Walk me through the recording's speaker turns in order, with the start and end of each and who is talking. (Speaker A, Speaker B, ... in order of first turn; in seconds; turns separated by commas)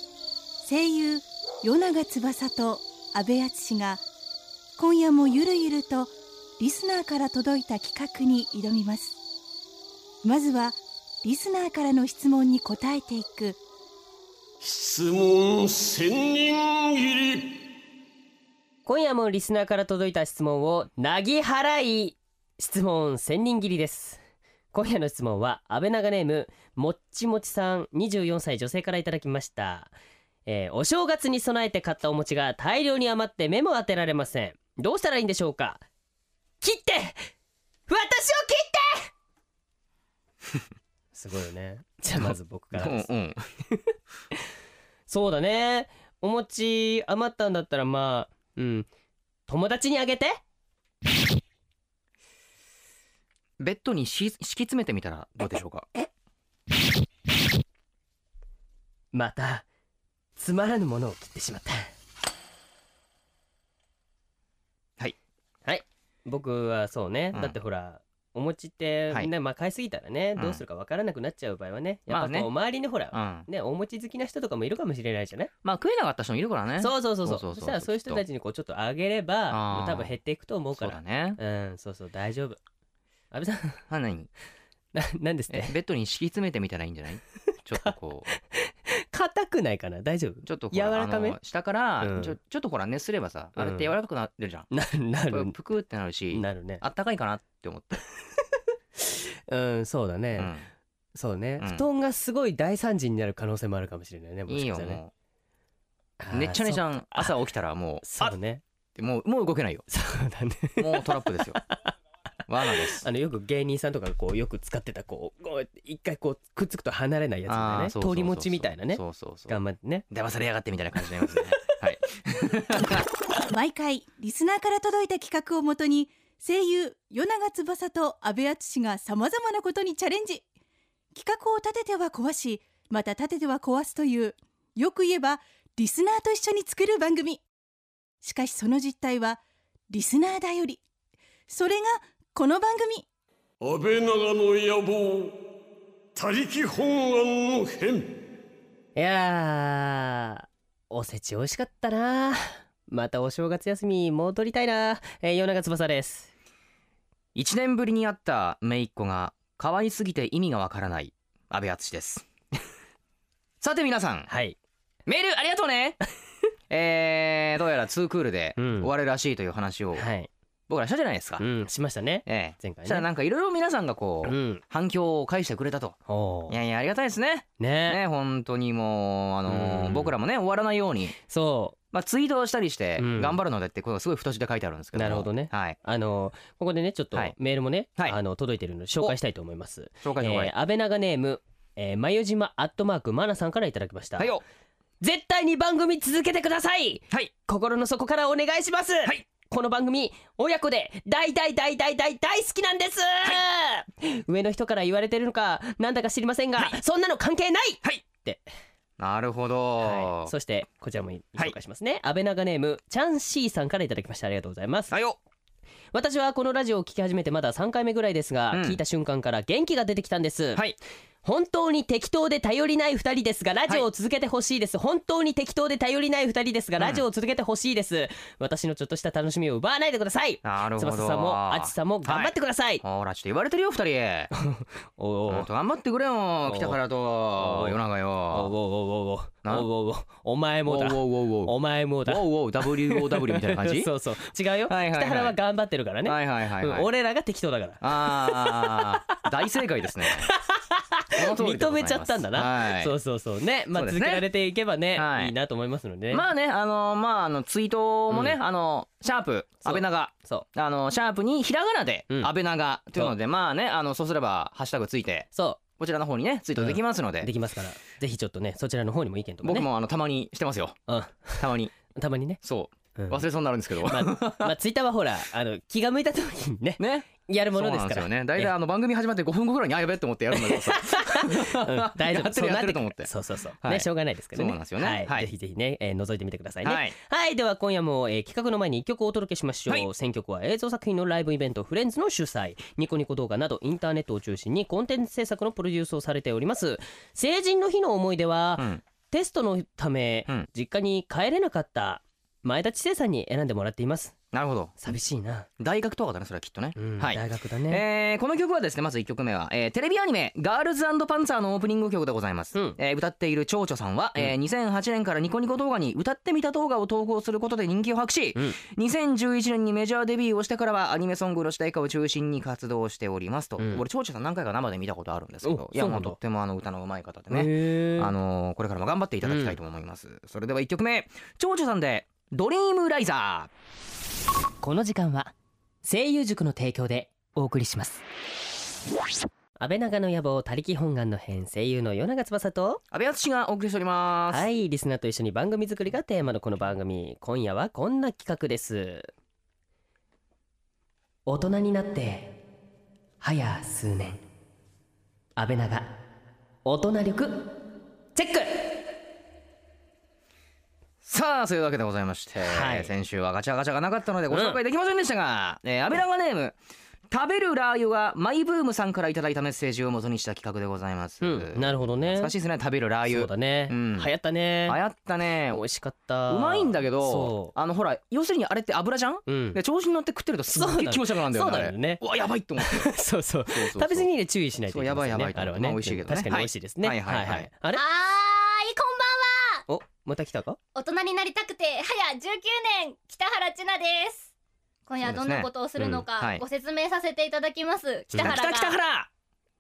Speaker A: 0.6-4.0, Speaker A: 4.8-9.2, Speaker A: 10.2-13.6, Speaker B: 14.6-17.6, Speaker C: 18.9-24.2, Speaker C: 24.7-29.9, Speaker C: 30.4-35.8, Speaker C: 36.6-37.3, Speaker C: 37.9-39.1, Speaker C: 41.1-43.1, Speaker D: 42.2-43.4, Speaker C: 45.1-48.9, Speaker C: 49.5-50.4, Speaker D: 53.6-55.9, Speaker C: 59.1-59.6, Speaker C: 60.4-61.9, Speaker C: 65.6-75.5, Speaker D: 70.3-70.6, Speaker D: 72.1-72.5, Speaker D: 73.1-73.5, Speaker D: 75.6-78.2, Speaker C: 76.8-82.6, Speaker D: 79.5-80.1, Speaker D: 80.8-81.4, Speaker C: 83.3-83.8, Speaker D: 83.9-84.3, Speaker C: 84.9-85.8, Speaker D: 85.5-88.2, Speaker C: 87.8-91.4, Speaker D: 90.4-94.7, Speaker C: 92.0-92.3, Speaker C: 93.6-93.9, Speaker C: 94.7-95.6, Speaker D: 95.3-98.0, Speaker C: 96.3-96.8, Speaker C: 99.0-100.5, Speaker D: 100.3-100.7, Speaker C: 101.1-105.0, Speaker D: 101.6-101.9, Speaker D: 104.5-105.1, Speaker C: 106.2-107.3, Speaker D: 106.3-108.3, Speaker C: 108.0-108.6, Speaker D: 109.0-109.8, Speaker C: 109.9-111.9, Speaker D: 110.8-111.6, Speaker D: 112.5-113.1, Speaker C: 112.6-120.1, Speaker D: 117.5-123.0, Speaker A: 123.5-130.4, Speaker A: 131.1-137.4, Speaker A: 138.2-140.8, Speaker A: 141.5-143.0, Speaker B: 143.6-145.4, Speaker B: 146.1-148.2, Speaker C: 148.9-156.3, Speaker D: 157.3-162.3, Speaker D: 163.6-164.3, Speaker C: 164.3-164.6, Speaker D: 165.1-166.0, Speaker D: 166.7-170.1, Speaker C: 168.6-168.9, Speaker C: 169.9-170.3, Speaker D: 170.7-171.4, Speaker C: 171.4-173.1, Speaker D: 172.2-176.0, Speaker C: 174.2-174.6, Speaker C: 176.1-176.6, Speaker D: 176.5-181.2, Speaker C: 177.6-178.0, Speaker C: 179.5-180.1, Speaker C: 181.2-181.8, Speaker D: 181.9-185.8, Speaker C: 183.0-183.4, Speaker C: 184.9-194.3, Speaker D: 190.0-190.5, Speaker D: 194.2-194.4, Speaker C: 195.0-208.4, Speaker D: 209.0-210.3, Speaker C: 209.8-214.9, Speaker D: 214.9-215.2, Speaker C: 215.9-220.6, Speaker D: 218.5-218.8, Speaker C: 221.2-232.8, Speaker D: 226.8-227.0, Speaker D: 230.4-234.3, Speaker C: 234.3-235.5, Speaker D: 235.3-238.5, Speaker C: 236.4-236.8, Speaker C: 237.3-237.8, Speaker C: 238.3-249.3, Speaker D: 240.7-243.9, Speaker D: 244.7-245.3, Speaker D: 246.0-246.9, Speaker D: 247.8-250.3, Speaker C: 250.0-256.2, Speaker D: 251.1-252.9, Speaker D: 253.7-254.3, Speaker D: 254.9-255.3, Speaker D: 256.1-265.3, Speaker C: 258.1-258.4, Speaker C: 259.6-260.4, Speaker C: 265.3-265.6, Speaker D: 265.8-267.3, Speaker C: 266.6-269.7, Speaker D: 269.4-270.8, Speaker C: 270.9-272.4, Speaker D: 271.4-271.7, Speaker D: 272.4-274.5, Speaker C: 272.9-273.2, Speaker C: 273.8-278.5, Speaker D: 276.8-283.1, Speaker C: 280.3-304.1, Speaker D: 283.6-285.3, Speaker D: 286.6-286.9, Speaker D: 304.3-304.8, Speaker C: 304.8-305.5, Speaker D: 305.6-333.5, Speaker C: 306.8-307.8, Speaker C: 323.6-323.8, Speaker C: 325.4-326.2, Speaker C: 327.3-328.1, Speaker C: 329.2-329.6, Speaker C: 334.6-335.3, Speaker C: 335.8-338.0, Speaker C: 339.6-342.8, Speaker D: 342.9-344.5, Speaker C: 344.3-349.1, Speaker C: 351.2-352.4, Speaker C: 353.2-354.2, Speaker C: 355.4-356.0, Speaker C: 356.6-357.5, Speaker C: 358.1-358.8, Speaker D: 361.0-366.6, Speaker C: 362.4-362.9, Speaker C: 364.3-364.6, Speaker D: 367.1-374.1, Speaker C: 371.2-372.3, Speaker C: 373.1-374.8, Speaker D: 374.7-375.6, Speaker C: 375.5-377.5, Speaker D: 376.3-382.9, Speaker C: 379.3-379.6, Speaker C: 380.5-382.0, Speaker C: 382.6-387.8, Speaker D: 383.5-384.1, Speaker D: 384.7-387.5, Speaker E: 387.7-389.6, Speaker C: 389.7-390.6, Speaker E: 390.7-394.3, Speaker E: 394.9-398.8, Speaker D: 395.0-395.5, Speaker D: 396.2-396.4, Speaker D: 398.1-399.1